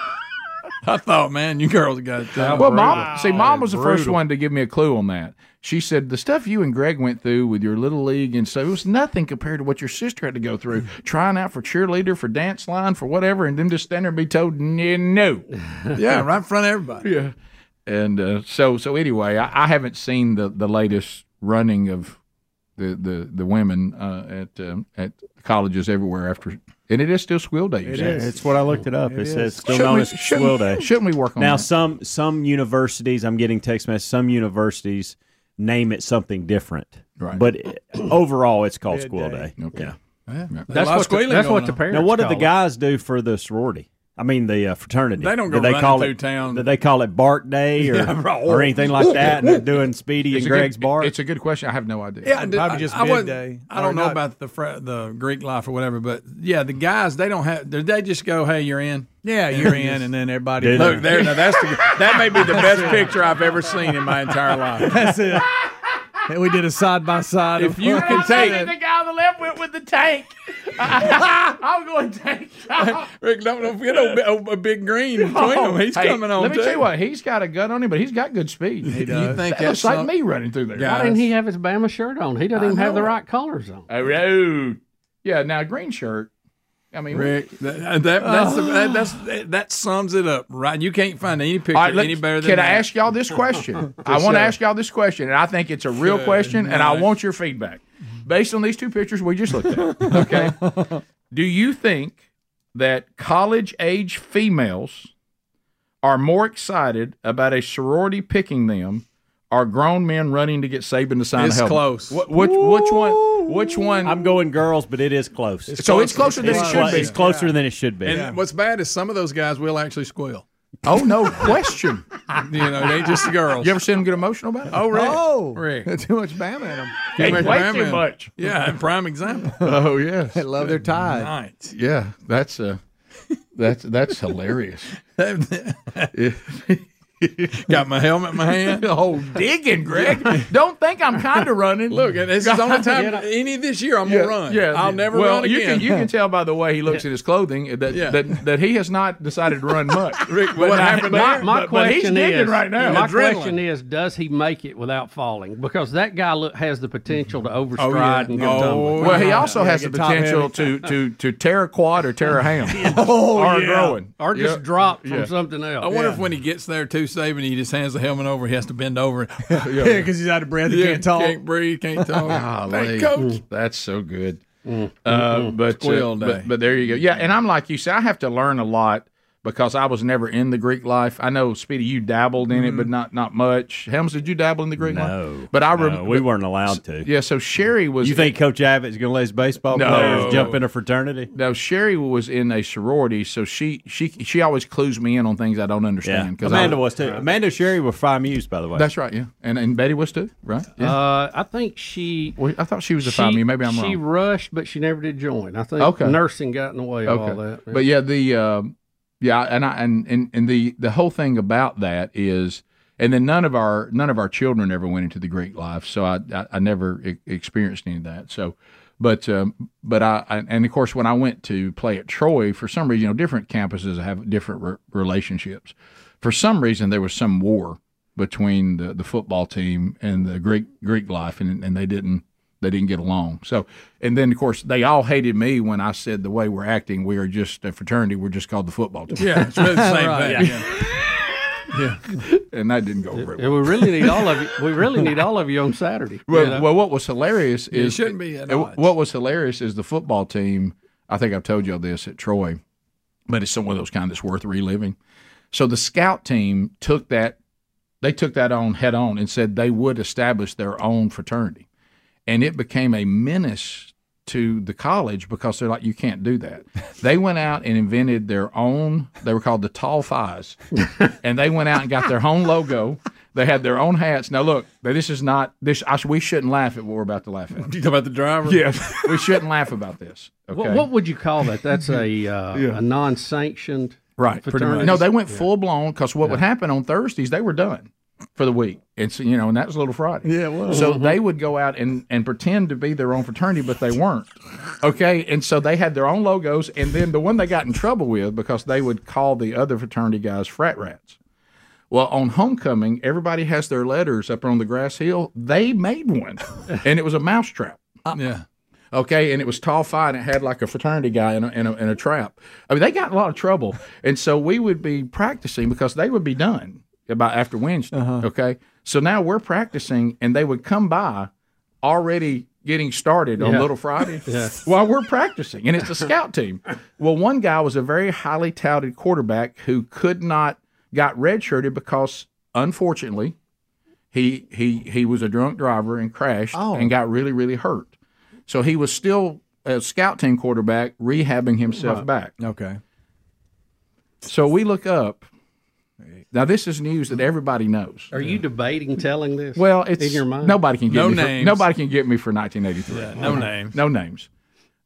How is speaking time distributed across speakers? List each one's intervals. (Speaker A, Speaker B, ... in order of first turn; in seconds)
Speaker A: 0.8-3.1, 15.9-17.1, 40.3-41.8, 45.2-46.7, 47.9-48.7, 52.2-60.1, 60.6-65.0, 67.5-68.7, 72.8-76.8, 78.9-80.1, 80.8-81.2, 87.1-92.9, 94.0-94.5, 96.0-97.1, 111.3-112.2, 118.0-120.4, 122.4-123.7, 124.7-125.9, 127.1-129.7, 130.7-131.7, 135.1-136.1, 137.6-138.9, 140.0-140.4, 141.9-146.0, 147.9-148.3, 150.2-151.5, 152.8-153.6, 157.8-159.6, 165.8-169.6, 170.7-173.4, 175.7-176.5, 190.0-190.6, 239.2-240.7, 241.7-242.2, 247.7-248.8, 277.6-279.1, 284.5-285.0, 308.1-308.4, 350.9-351.6, 352.9-353.8
Speaker B: 2.4-4.2, 40.7-42.5, 80.8-83.9, 142.9-143.2, 151.1-159.2, 164.2-165.9, 174.6-175.5, 200.8-202.4, 203.0-207.8, 243.2-246.6, 280.5-285.4, 290.7-291.1, 323.4-324.6, 348.1-350.6
Speaker C: 2.5-15.5, 17.0-17.3, 17.9-22.2, 22.8-28.3, 29.6-31.7, 37.2-37.4, 39.6-39.9, 50.3-52.4, 67.9-73.1, 75.2-81.0, 82.7-83.0, 83.9-86.3, 86.9-87.4, 91.7-100.6, 101.3-102.2, 102.7-105.1, 106.0-114.3, 115.8-117.2, 120.8-122.0, 123.6-125.2, 127.2-128.3, 129.6-130.4, 131.7-132.8, 133.6-134.9, 136.1-137.6, 138.5-143.2, 144.0-153.1, 159.0-165.3, 169.6-170.1, 172.2-174.4, 175.0-188.3, 189.7-190.6, 191.3-196.8, 198.7-200.9, 202.4-204.0, 205.8-206.2, 207.1-239.4, 242.5-244.1, 246.3-252.6, 253.3-254.9, 255.5-257.4, 258.0-261.6, 262.3-277.7, 278.4-280.9, 284.2-301.2, 301.9-308.0, 308.9-321.3, 321.8-333.3, 334.1-337.9, 338.5-342.3, 344.2-345.2, 346.3-348.1, 349.6-354.3
Speaker D: 27.8-29.7, 38.9-39.5, 48.1-48.7, 52.4-54.2, 59.2-63.2, 64.8-65.5, 66.3-68.7, 78.9-79.4, 88.2-89.0, 100.0-100.9, 115.7-118.4, 124.7-127.5, 130.3-131.3, 158.3-160.8, 162.7-164.0, 165.9-166.2, 169.5-171.4, 182.5-182.8, 239.8-240.5, 290.2-290.9, 317.9-318.3, 336.5-336.9, 342.4-342.8
Speaker E: 27.9-39.9, 41.9-51.1, 60.6-61.3, 114.0-118.3, 184.8-187.1, 188.0-191.3, 196.0-198.9